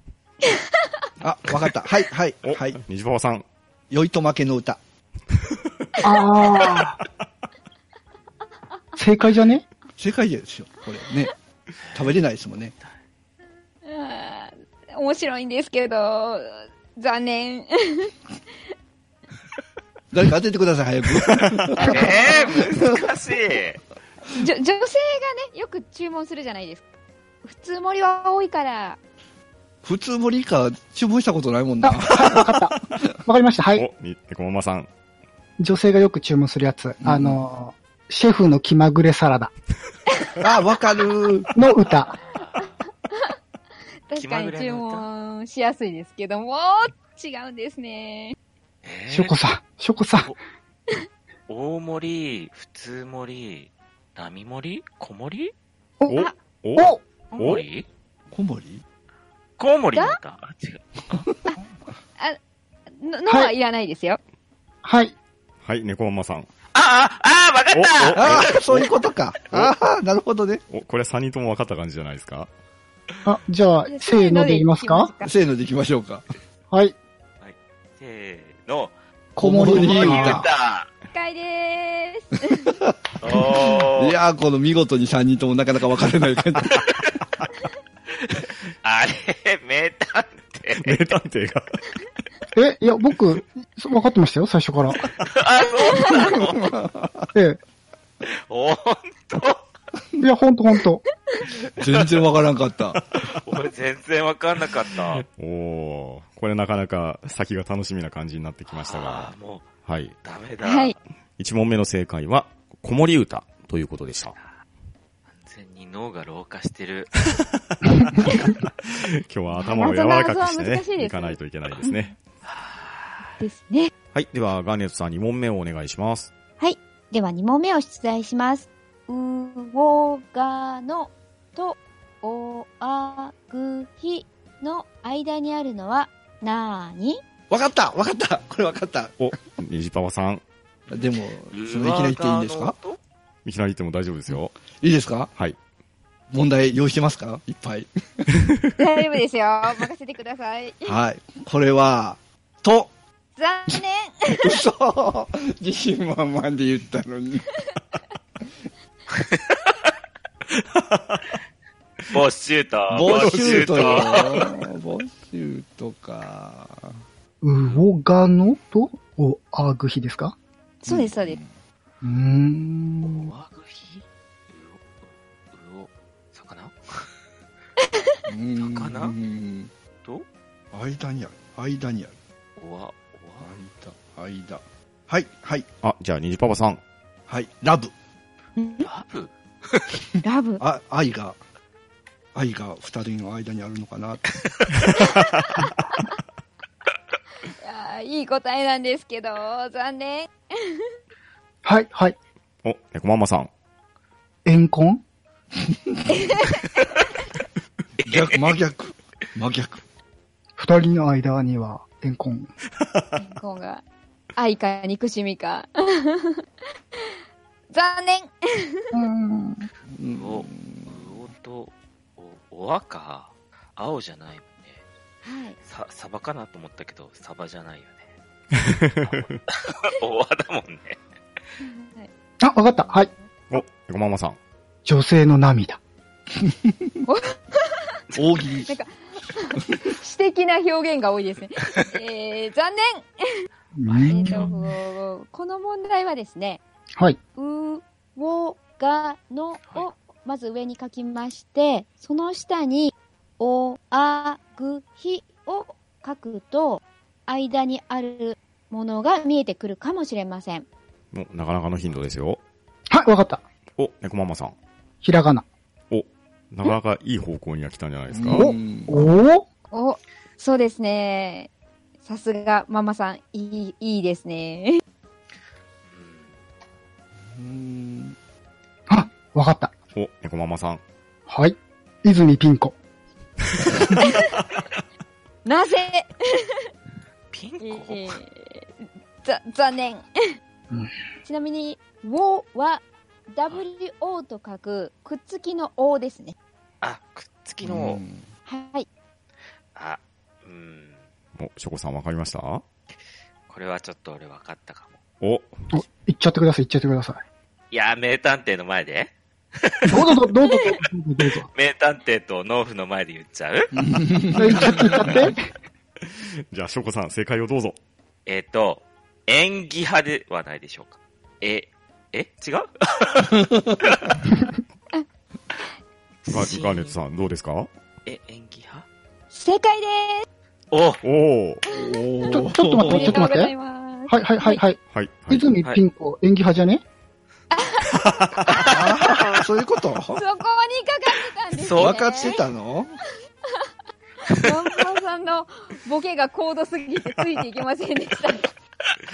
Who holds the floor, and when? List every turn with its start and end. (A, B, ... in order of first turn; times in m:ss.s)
0:01.2-0:02.8 A
0:02.4-0:03.4 B
0:03.9-0:04.8 A
0:06.0-0:07.0 C
0:09.0-0:09.6 C
0:10.0-0:11.3 A
0:11.9-0:12.7 A
0:13.8-0:18.1 D
0:20.1-0:22.9 A
0:21.3-0:21.9 B
0:21.8-0:23.8 E
0:21.9-0:22.5 D
0:24.4-0:26.9 D
0:27.4-0:29.0 D
0:29.8-0:32.7 A
0:31.8-0:33.8 C
0:33.7-0:34.9 B
0:35.6-0:39.5 C
0:37.0-0:37.4 A
0:40.4-0:41.5 A
0:41.5-0:42.1 C
0:42.0-0:42.8 E
0:44.1-0:48.4 D
0:44.2-0:45.1 E
0:48.8-0:49.4 E
0:49.1-0:50.3 C
0:51.5-0:55.5 E
0:56.0-0:57.0 C
0:56.1-0:57.6 B
0:57.3-0:57.8 E
0:58.3-0:58.8 A
0:59.6-1:00.8 E
1:03.0-1:04.2 D
1:04.8-1:05.1 C
1:05.6-1:06.5 B
1:06.7-1:08.9 E
1:07.7-1:08.8 B
1:08.1-1:10.6 A
1:10.7-1:12.5 B
1:13.2-1:15.1 C
1:13.8-1:15.3 D
1:15.2-1:16.2 A
1:17.4-1:18.9 E
1:19.3-1:20.4 C
1:19.4-1:20.4 A
1:19.7-1:20.9 E
1:21.1-1:22.7 D
1:22.6-1:26.8 A
1:23.2-1:24.2 E
1:26.7-1:27.0 E
1:28.2-1:31.0 E
1:30.8-1:31.8 B
1:32.5-1:35.0 C
1:35.2-1:36.7 E
1:35.8-1:36.3 D
1:36.0-1:37.3 A
1:37.3-1:37.6 C
1:38.2-1:39.6 E
1:40.2-1:41.0 C
1:41.8-1:43.0 A
1:43.1-1:43.4 B
1:43.2-1:45.2 E
1:45.2-1:49.3 B
1:48.7-1:49.7 E
1:49.8-1:50.1 B
1:50.2-1:51.0 E
1:50.6-1:50.9 D
1:51.4-1:54.4 B
1:55.3-1:57.3 E
1:57.3-2:02.1 B
1:59.5-2:02.0 D
2:02.4-2:03.3 E
2:03.4-2:03.9 D
2:04.1-2:06.3 B
2:06.6-2:17.2 D
2:17.5-2:19.2 A
2:19.2-2:20.4 B
2:20.9-2:22.7 A
2:21.0-2:23.0 E
2:23.4-2:24.6 B
2:24.7-2:25.3 A
2:26.3-2:28.3 A
2:28.8-2:31.0 D
2:30.8-2:32.9 A
2:33.4-2:34.6 D
2:34.3-2:37.6 A
2:39.1-2:39.7 E
2:42.1-2:44.6 E
2:42.9-2:47.0 A
2:47.4-2:50.3 C
2:47.6-2:47.8 E
2:50.8-2:51.4 D
2:50.9-2:51.5 A
2:52.0-2:53.3 C
2:53.0-2:54.9 E
2:55.5-2:57.1 E
2:58.3-2:59.7 A
2:58.6-2:59.2 E
3:00.7-3:02.1 A
3:02.6-3:03.5 E
3:03.4-3:05.7 A
3:05.8-3:06.8 B
3:07.3-3:07.9 A
3:08.6-3:08.9 D
3:08.8-3:09.9 E
3:10.2-3:10.6 D
3:10.6-3:11.4 A
3:12.3-3:14.2 A
3:14.9-3:15.6 B
3:15.6-3:16.1 D
3:17.6-3:20.9 D
3:21.6-3:22.2 C
3:22.6-3:23.5 B
3:24.4-3:25.0 C
3:26.1-3:26.7 D
3:28.0-3:28.6 E
3:28.0-3:29.8 A
3:30.6-3:32.5 C
3:32.8-3:33.1 B
3:33.2-3:33.8 D
3:34.4-3:37.2 D
3:37.7-3:38.8 D
3:38.9-3:39.7 C
3:39.9-3:41.1 A
3:40.2-3:44.8 E
3:45.2-3:45.6 D
3:45.6-3:48.1 E
3:48.5-3:49.4 B
3:49.1-3:51.0 E
3:51.6-3:52.1 D
3:52.4-3:53.1 C
3:53.5-3:54.4 B
3:54.8-3:55.8 C
3:56.4-3:56.9 A
3:57.0-3:57.8 D
3:58.1-3:58.7 A
3:58.6-4:03.4 D
4:03.8-4:04.7 C
4:03.8-4:04.4 E
4:04.0-4:06.6 D
4:07.4-4:20.7 D
4:21.1-4:22.4 B
4:22.9-4:23.4 C
4:23.8-4:24.5 B
4:25.0-4:25.4 C
4:25.9-4:28.4 B
4:28.1-4:29.0 A
4:28.3-4:29.4 C
4:29.7-4:31.5 D
4:32.0-4:34.8 D
4:35.8-4:36.3 E
4:37.3-4:38.2 A
4:38.9-4:39.7 C
4:39.9-4:40.8 B
4:41.3-4:42.7 C
4:43.6-4:44.0 B
4:43.9-4:44.4 D
4:45.4-4:46.6 D
4:47.3-4:48.2 E
4:47.6-4:50.0 D
4:51.2-4:56.3 D
4:56.8-4:58.0 E
4:57.6-4:58.3 A
4:58.5-4:58.9 D
4:59.7-5:01.0 E
5:01.4-5:02.6 B
5:03.5-5:05.0 E
5:05.2-5:05.6 B
5:05.7-5:07.2 C
5:07.7-5:10.2 E
5:09.8-5:11.5 C
5:11.4-5:13.8 E
5:13.7-5:15.3 A
5:14.3-5:15.5 C
5:14.6-5:15.1 E
5:16.1-5:17.8 B
5:18.2-5:24.1 E
5:23.3-5:23.8 A
5:26.2-5:27.0 E
5:26.3-5:27.7 B
5:28.0-5:28.8 E
5:29.3-5:30.2 D
5:30.7-5:31.0 E
5:31.0-5:31.6 B
5:31.6-5:33.3 A
5:32.2-5:33.5 C
5:32.8-5:34.6 D
5:34.1-5:36.8 C
5:34.9-5:35.5 B
5:37.5-5:38.7 D
5:37.9-5:38.7 B
5:38.5-5:39.4 E
5:38.6-5:40.2 A
5:40.1-5:42.4 D
5:41.6-5:42.4 E
5:41.8-5:42.9 A
5:44.2-5:48.5 D